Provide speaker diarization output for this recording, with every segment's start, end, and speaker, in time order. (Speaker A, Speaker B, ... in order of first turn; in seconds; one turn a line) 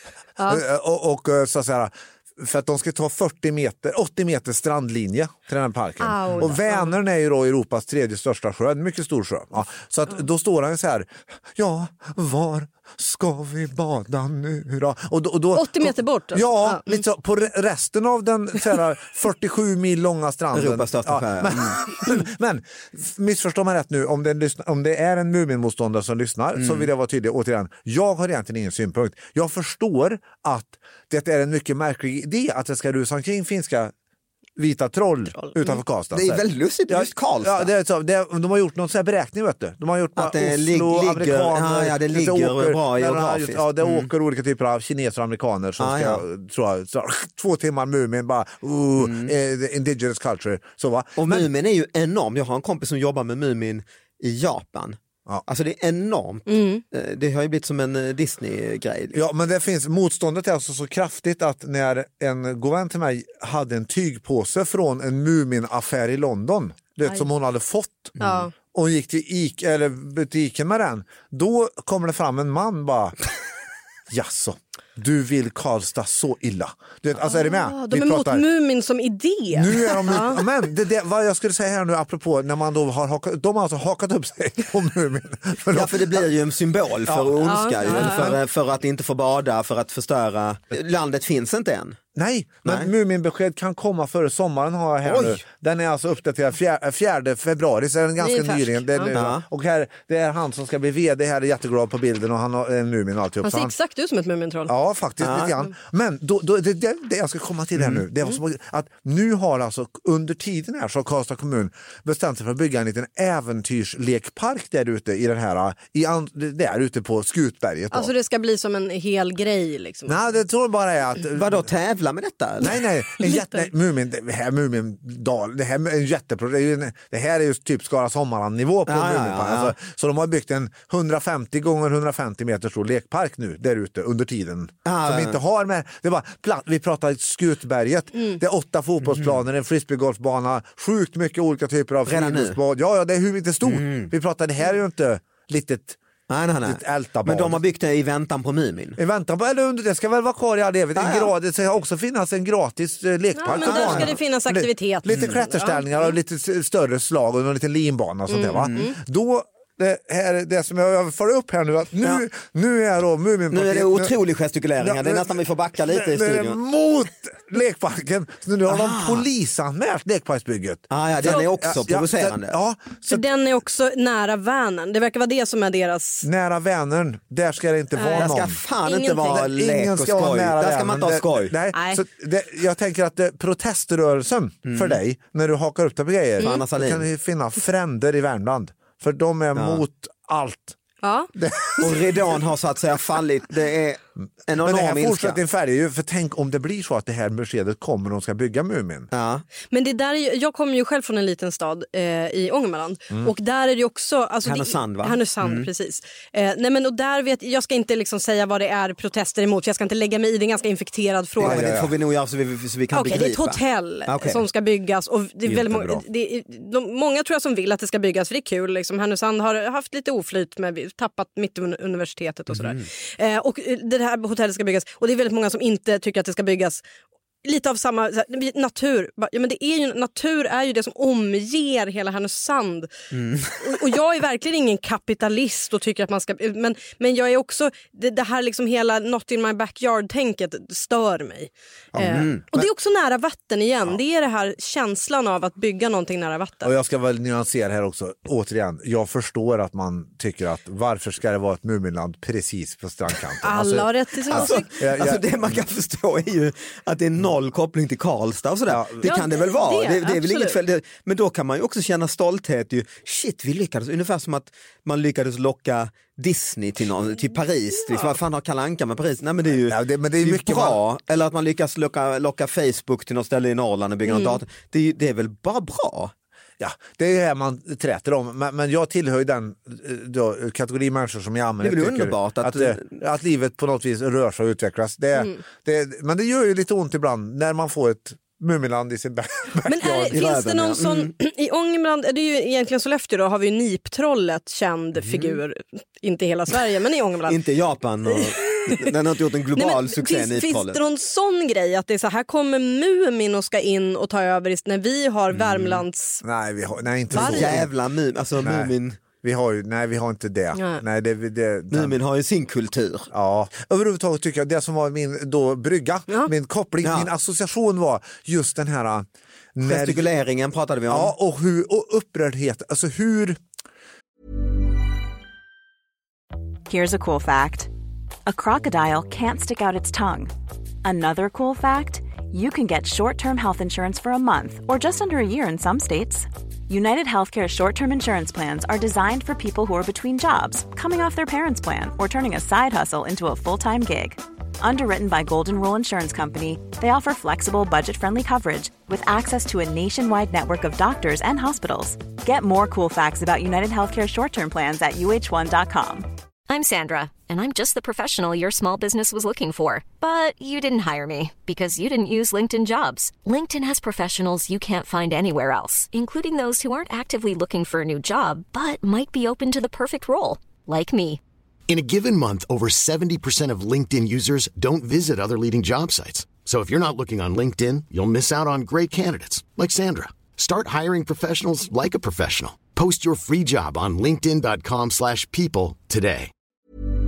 Speaker A: 0.4-0.6
Speaker B: 0.5-33.9
Speaker A: 6.0-6.9
Speaker A: 15.5-17.0
Speaker C: 20.5-21.9
Speaker C: 26.6-26.9
Speaker B: 34.6-51.5
Speaker A: 35.4-35.8
Speaker C: 36.1-37.7
Speaker C: 40.2-44.1
Speaker C: 45.8-46.2
Speaker C: 49.0-49.3
Speaker C: 51.2-59.2
Speaker A: 56.5-56.8
Speaker B: 59.1-73.2
Speaker A: 68.2-68.5
Speaker B: 74.1-78.5
Speaker A: 77.2-80.4
Speaker B: 79.5-86.3
Speaker C: 85.7-92.0
Speaker B: 87.1-88.4
Speaker A: 87.4-88.3
Speaker B: 92.1-103.7
Speaker C: 92.6-92.9
Speaker C: 95.0-95.4
Speaker A: 98.2-99.1
Speaker C: 99.1-99.4
Speaker A: 103.4-104.7
Speaker B: 104.7-118.1
Speaker C: 105.2-105.5
Speaker C: 107.8-108.0
Speaker A: 117.9-120.2
Speaker B: 120.1-121.6
Speaker C: 121.3-122.8
Speaker B: 122.6-146.0
Speaker A: 123.2-123.7
Speaker C: 128.9-129.7
Speaker C: 134.8-135.4
Speaker C: 139.1-139.4
Speaker C: 142.1-142.6
Speaker C: 143.6-144.1
Speaker C: 146.3-149.0
Speaker B: 146.6-147.6
Speaker B: 149.0-164.1
Speaker C: 151.0-151.3
Speaker A: 153.3-156.1
Speaker C: 153.5-154.1
Speaker A: 158.3-158.9
Speaker C: 158.5-158.9
Speaker C: 163.5-166.6
Speaker B: 164.8-165.3
Speaker B: 165.9-173.2
Speaker C: 168.7-169.2
Speaker C: 170.9-172.5
Speaker A: 173.1-176.3
Speaker B: 176.2-178.6
Speaker A: 177.9-179.4
Speaker C: 178.1-181.5
Speaker B: 179.2-190.8
Speaker A: 181.7-182.0
Speaker C: 184.7-185.0
Speaker C: 186.4-187.0
Speaker C: 189.6-189.8
Speaker A: 191.0-191.3
Speaker B: 191.3-192.2
Speaker C: 191.8-195.4
Speaker B: 194.6-199.1
Speaker C: 199.1-199.4
Speaker A: 199.7-211.7
Speaker C: 204.4-205.7
Speaker B: 211.4-211.9
Speaker C: 211.4-214.4
Speaker A: 212.9-226.8
Speaker B: 215.4-216.0
Speaker C: 222.5-222.9
Speaker A: 227.4-232.9
Speaker C: 233.1-233.8
Speaker A: 233.6-246.7
Speaker B: 241.9-242.7
Speaker C: 242.1-242.4
Speaker B: 246.6-255.5
Speaker A: 253.4-254.7
Speaker C: 254.3-276.1
Speaker B: 258.7-259.1
Speaker A: 259.0-260.6
Speaker B: 269.6-270.8
Speaker A: 274.1-274.4
Speaker B: 276.6-290.3
Speaker C: 281.6-283.0
Speaker A: 289.6-297.4
Speaker C: 290.1-291.1
Speaker C: 295.0-295.4
Speaker C: 297.2-300.8
Speaker A: 298.2-298.9
Speaker A: 299.6-306.2
Speaker B: 305.4-307.7
Speaker A: 307.1-307.5
Speaker C: 307.1-309.0
Speaker B: 308.4-312.0
Speaker A: 310.5-310.8
Speaker C: 311.7-313.1
Speaker B: 313.1-320.1
Speaker C: 316.8-317.1
Speaker C: 319.6-321.1
Speaker B: 320.9-323.4
Speaker D: 326.7-327.7
Speaker D: 328.2-330.3
Speaker D: 330.8-356.1
Speaker E: 356.5-371.2
Speaker F: 371.7-386.3